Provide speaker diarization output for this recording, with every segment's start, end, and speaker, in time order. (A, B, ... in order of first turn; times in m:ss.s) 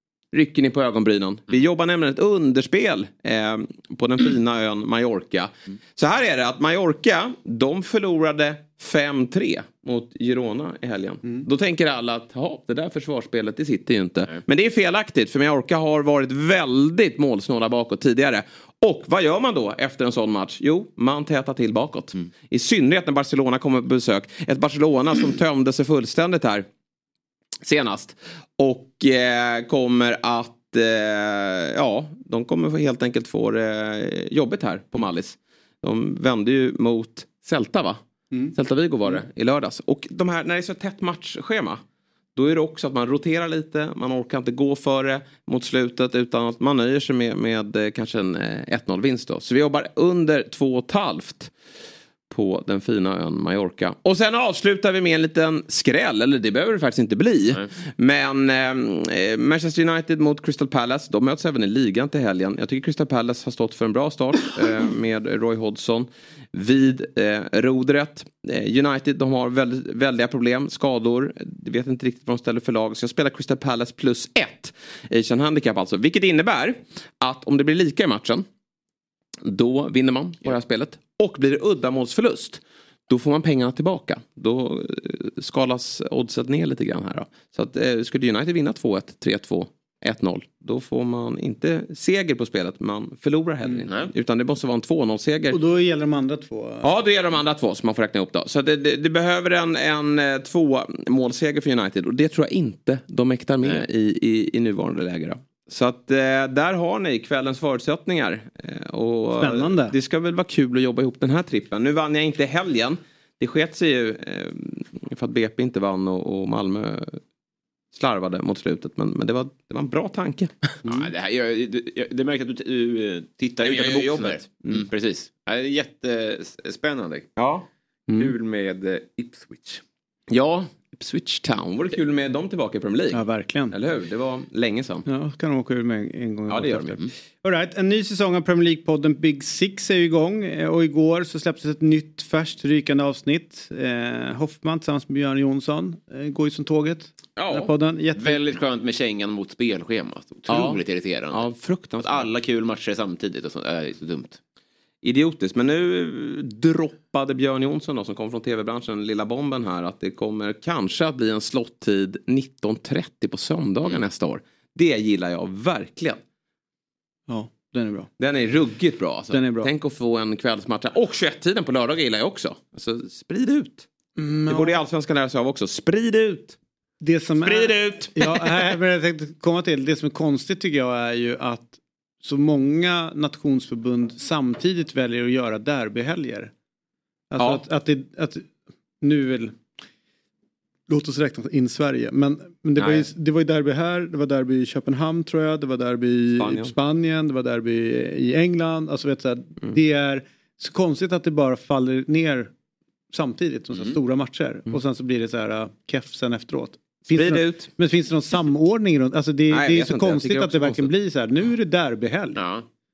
0:00.3-0:26.6 A
0:27.6-0:38.0 A
0:38.5-0:41.8 A
0:42.4-0:51.5 A
0:52.3-1:18.4 A
1:19.4-1:35.6 A
1:35.5-1:36.9 B
1:36.8-1:57.2 A
1:49.4-1:49.9 B
1:57.9-2:00.8 A
2:00.8-2:07.3 C
2:03.6-2:04.9 A
2:07.4-2:07.7 A
2:08.2-2:09.8 C
2:08.2-2:09.0 A
2:10.3-2:15.0 A
2:13.1-2:13.8 B
2:15.0-2:28.4 B
2:16.5-2:17.0 A
2:27.4-2:27.7 A
2:28.2-2:31.4 C
2:30.5-2:32.3 A
2:32.0-2:34.4 C
2:35.0-2:46.2 A
2:47.3-2:48.1 B
2:48.2-2:53.8 A
2:49.3-2:49.7 B
2:54.2-2:54.8 B
2:54.5-2:56.5 A
2:57.0-3:06.5 B
2:57.4-2:58.6 A
3:07.3-3:08.5 B
3:07.4-3:07.6 A
3:09.0-3:09.6 B
3:10.9-3:22.5 B
3:12.8-3:13.1 A
3:16.4-3:16.7 A
3:23.1-3:32.4 B
3:27.1-3:27.7 A
3:29.5-3:30.9 A
3:32.4-3:32.6 C